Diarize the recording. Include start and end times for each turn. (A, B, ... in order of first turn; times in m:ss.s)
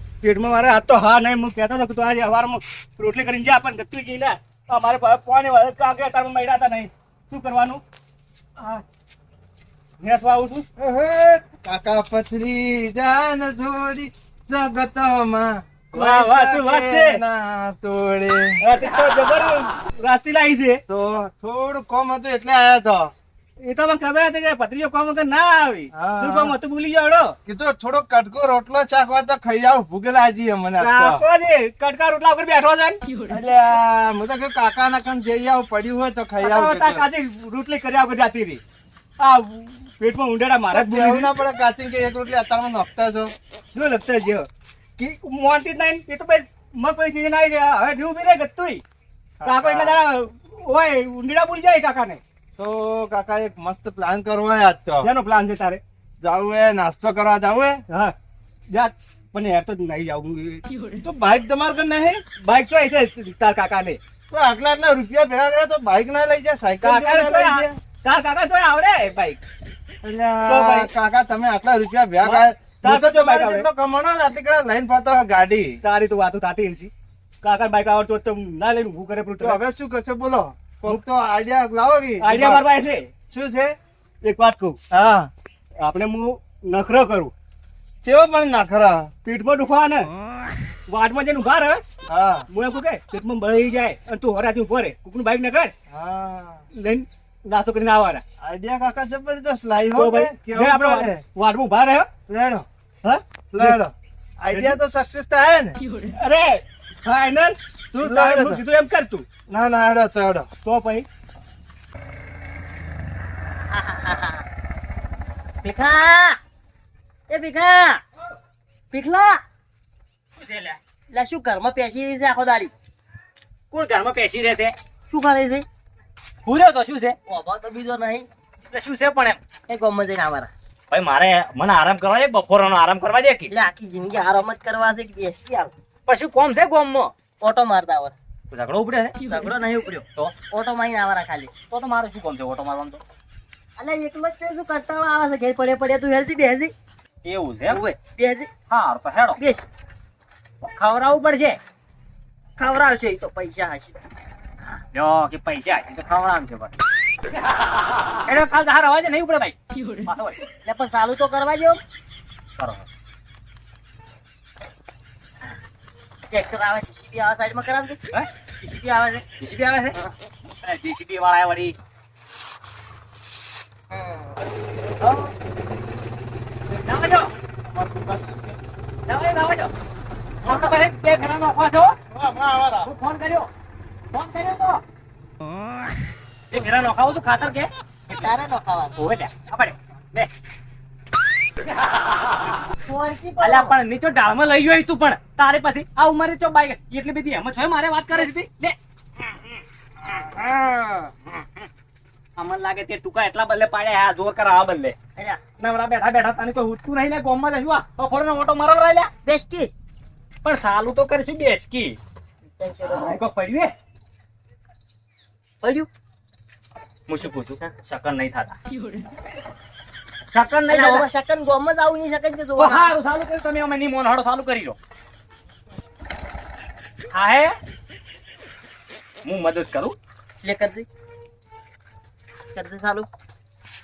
0:00.2-0:07.8 A
0:10.0-0:10.7 A
0:10.8-0:18.6 B
0:15.9-0:17.2 A
0:18.6-0:20.8 A
0:20.9-0:23.1 B
0:23.6-0:27.3 A
0:25.9-0:26.6 B
0:27.4-0:31.2 B
0:30.8-0:33.0 A
0:33.3-0:37.1 B
0:36.4-0:38.6 A
0:39.2-0:41.3 A
0:40.7-0:43.3 B
0:43.7-0:48.8 A
0:49.4-0:50.0 B
0:49.4-0:52.2 A
0:52.6-0:55.1 B
0:55.0-0:55.8 A
0:56.2-0:57.8 B
0:57.9-0:58.2 A
0:58.7-1:00.6 A
1:01.0-1:02.2 B
1:02.4-1:04.0 A
1:04.3-1:07.8 B
1:06.8-1:09.4 A
1:10.0-1:15.8 B
1:10.4-1:10.9 A
1:12.2-1:13.7 A
1:15.8-1:16.9 A
1:17.4-1:19.6 A
1:19.4-1:22.6 B
1:22.2-1:23.1 A
1:23.3-1:23.8 B
1:24.2-1:24.8 A
1:24.9-1:25.3 B
1:25.8-1:27.3 A
1:28.0-1:29.1 B
1:29.2-1:30.1 A
1:30.9-1:31.8 A
1:32.1-1:32.5 B
1:32.5-1:35.7 A
1:35.9-1:36.7 B
1:36.7-1:38.2 A
1:38.4-1:41.2 B
1:39.9-1:42.1 A
1:42.3-1:42.7 B
1:43.0-1:43.8 A
1:43.5-1:45.8 B
1:44.5-1:44.8 A
1:46.1-1:49.3 A
1:48.0-1:48.6 B
1:49.5-1:50.5 B
1:50.6-1:51.1 A
1:53.7-1:54.4 C
1:55.6-1:56.4 C
1:57.3-1:58.0 C
1:58.9-1:59.4 C
2:00.4-2:00.7 D
2:01.1-2:02.7 C
2:03.7-2:04.7 D
2:05.1-2:05.7 C
2:06.5-2:07.2 D
2:07.3-2:08.3 C
2:08.7-2:09.4 D
2:09.7-2:10.5 C
2:10.9-2:13.5 D
2:13.5-2:15.7 C
2:16.1-2:17.1 D
2:17.4-2:18.2 C
2:18.5-2:19.2 D
2:19.3-2:21.5 C
2:21.7-2:23.0 D
2:23.8-2:26.7 C
2:27.2-2:27.8 D
2:27.7-2:28.5 C
2:28.7-2:29.4 D
2:29.4-2:29.6 C
2:30.6-2:31.6 D
2:32.6-2:34.0 C
2:34.9-2:36.7 D
2:38.3-2:39.5 D
2:40.6-2:41.8 C
2:46.3-2:48.0 C
2:48.6-2:49.2 C
2:49.4-2:50.0 D
2:50.6-2:51.8 D
2:53.9-2:54.4 C
2:55.0-2:55.3 D
2:56.7-2:57.3 D
2:59.1-2:59.7 D
3:00.4-3:00.8 C
3:00.4-3:02.0 D
3:02.1-3:02.9 B
3:02.8-3:03.5 D
3:04.1-3:04.8 D
3:06.5-3:08.3 D
3:08.1-3:09.0 C
3:09.0-3:10.3 D
3:12.8-3:13.8 C
3:13.4-3:18.8 D
3:20.1-3:21.3 D
3:22.4-3:24.9 D
3:25.2-3:25.4 C
3:25.6-3:29.1 D
3:29.2-3:29.7 C
3:30.4-3:32.0 D
3:32.6-3:33.2 C
3:32.9-3:33.7 D
3:35.6-3:35.9 C
3:37.1-3:38.5 D
3:40.3-3:41.1 D
3:40.7-3:43.0 C
3:42.6-3:44.8 D
3:47.1-3:47.6 D
3:49.2-3:50.0 D
3:50.4-3:50.9 C
3:52.6-3:53.1 C